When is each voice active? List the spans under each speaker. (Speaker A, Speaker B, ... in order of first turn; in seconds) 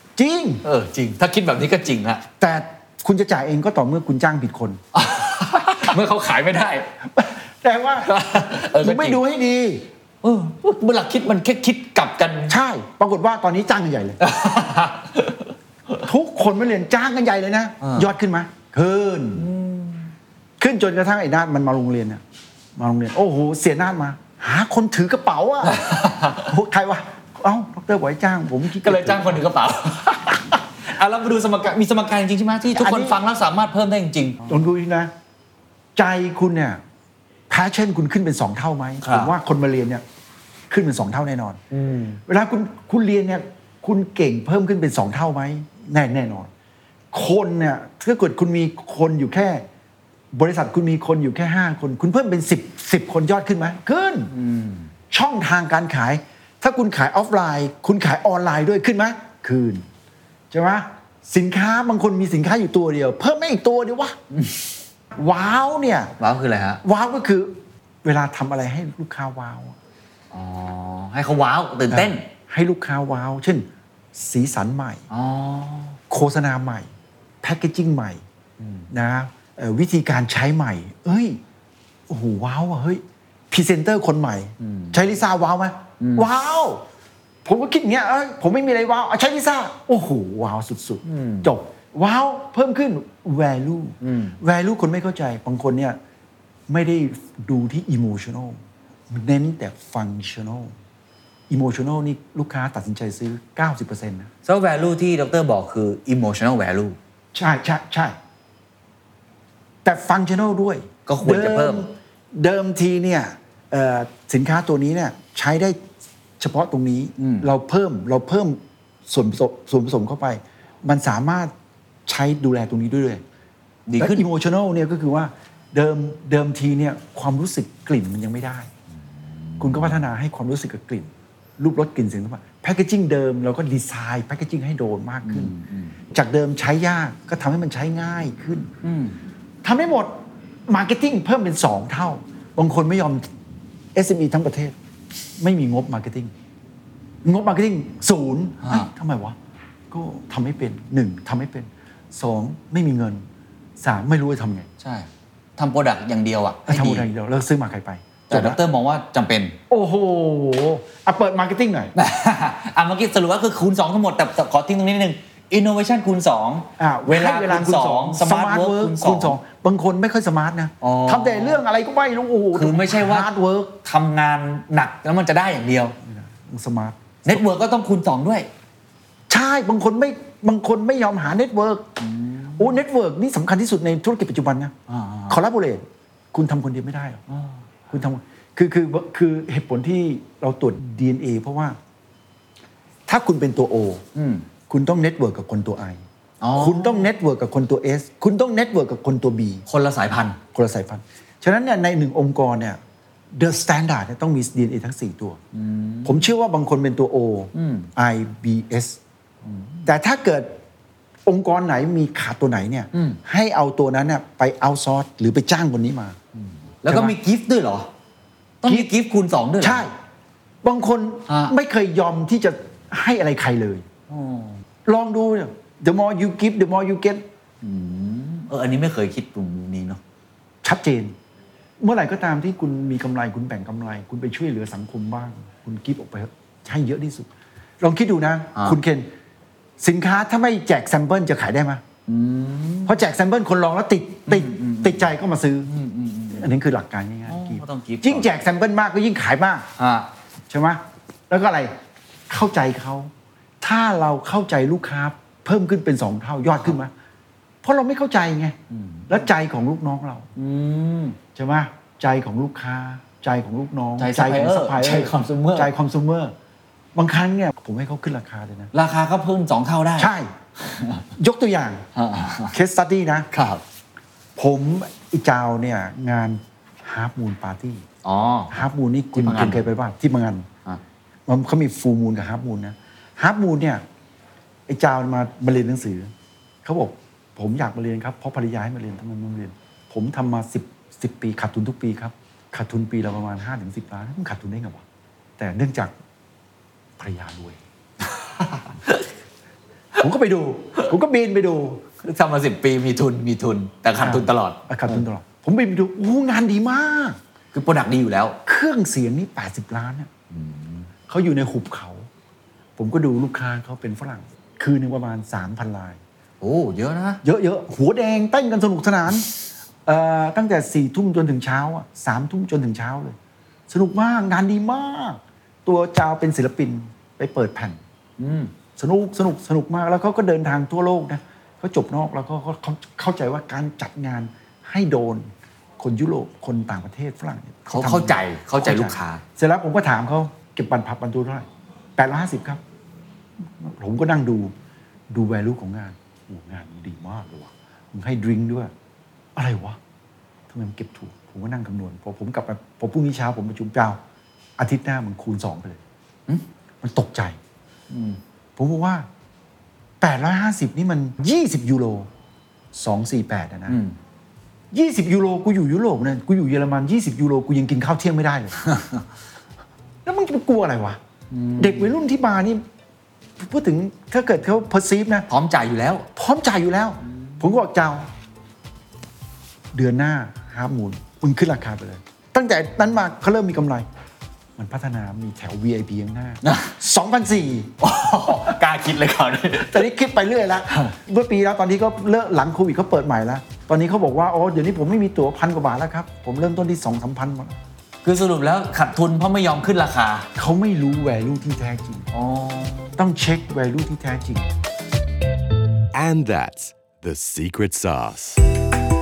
Speaker A: 0.2-0.6, 2.4-4.8, 7.1-8.1, 8.7-9.9, 12.5-14.2, 16.0-19.5, 20.6-22.2, 22.8-29.4, 32.7-33.2, 34.4-35.1, 36.0-36.8, 37.5-40.0, 40.7-41.6, 42.3-46.5, 47.1-49.6, 50.3-54.3, 55.1-59.9, 60.5-64.2, 65.2-66.1, 66.8-69.8, 71.9-75.0, 76.1-76.9, 77.4-78.2, 78.9-81.4, 82.1-86.8, 87.4-96.0, 96.7-100.7, 101.5-104.3, 107.3-108.2, 109.8-115.8, 116.4-121.5, 122.0-123.2, 124.0-128.7, 129.6-135.5, 136.1-138.7, 139.6-143.3, 143.9-144.7, 145.4-146.3, 147.2-149.3, 149.9-153.2, 153.8-154.7, 156.7-158.6, 159.7-161.9, 166.8-173.8, 176.0-177.4, 179.3-182.0, 182.6-184.7, 185.3-187.2, 187.9-191.8, 193.1-194.0, 194.7-196.0, 196.5-199.6, 200.5-202.8, 203.3-205.4, 206.0-209.0, 209.8-210.6, 211.2-216.2, 216.9-217.1, 219.6-219.9, 220.6-223.8, 224.8-227.2, 230.6-231.1, 231.8-237.3, 237.8-239.1, 239.8-241.8, 242.8-245.7, 246.3-249.7, 250.5-251.7, 252.3-256.9, 257.6-258.6, 259.1-260.3, 261.3-266.3, 266.9-268.7, 270.0-270.3, 271.2-271.8, 272.5-273.3, 274.4-277.9, 278.5-280.5, 281.3-283.8, 284.7-286.1, 286.6-294.8, 295.4-295.9, 297.0-297.6, 300.0-301.9, 304.0-307.2, 308.4-310.1, 311.1-312.1, 312.8-316.0, 317.2-319.3, 319.9-323.1, 323.7-327.8, 328.8-342.6, 343.4-344.5, 345.1-348.7, 349.4-349.8, 350.5-354.0, 354.6-355.8, 356.8-357.4, 358.6-359.1, 360.0-362.1, 362.7-363.8, 364.7-368.6, 370.0-371.0, 371.6-372.6, 373.4-375.3, 376.1-378.1, 379.7-383.9, 384.6-387.7, 389.5-397.6, 400.4-402.1, 403.0-404.5
Speaker B: 0.6-2.2, 4.9-6.9, 8.0-9.2, 10.2-12.6, 14.2-16.0, 17.8-18.1, 19.4-20.1, 25.6-26.5, 28.8-34.4, 39.0-39.3, 41.7-42.2, 54.3-54.9, 64.3-64.7, 66.2-66.8, 70.3-72.2, 75.1-76.0, 78.6-78.9, 84.6-85.0, 86.0-86.3, 91.0-91.5, 94.0-94.4, 104.4-107.0, 111.1-111.8, 117.2-117.5, 123.9-124.2, 129.3-130.0, 135.2-135.9, 138.8-139.1, 148.6-148.9, 154.8-157.1, 158.3-159.6, 161.9-169.3, 170.8-171.6, 172.5-173.3, 173.8-175.9, 177.2-178.5, 182.0-182.8, 184.9-185.4, 187.3-187.5, 194.1-194.4, 196.4-197.1, 199.7-200.4, 205.5-206.3, 207.5-207.9, 209.4-209.9, 212.9-213.2, 216.3-217.9, 218.6-219.8, 221.3-221.5, 224.1-224.6, 227.6-230.0, 242.1-243.0, 244.3-245.1, 245.7-246.5, 247.3-248.3, 249.8-250.1, 258.7-259.1, 260.4-261.2, 264.0-265.7, 268.7-271.1, 271.9-272.5, 273.3-273.6, 278.0-278.6, 279.1-279.6, 298.2-299.1, 302.0-305.0, 307.5-308.4, 310.3-310.9, 316.4-317.2, 328.2-328.5, 337.7-339.2, 357.9-358.2, 363.7-364.0, 371.3-371.9, 375.3-376.1, 377.1-377.4, 386.4-386.7, 387.8-389.8, 398.0-400.3, 402.1-403.0
Speaker C: 405.9-408.4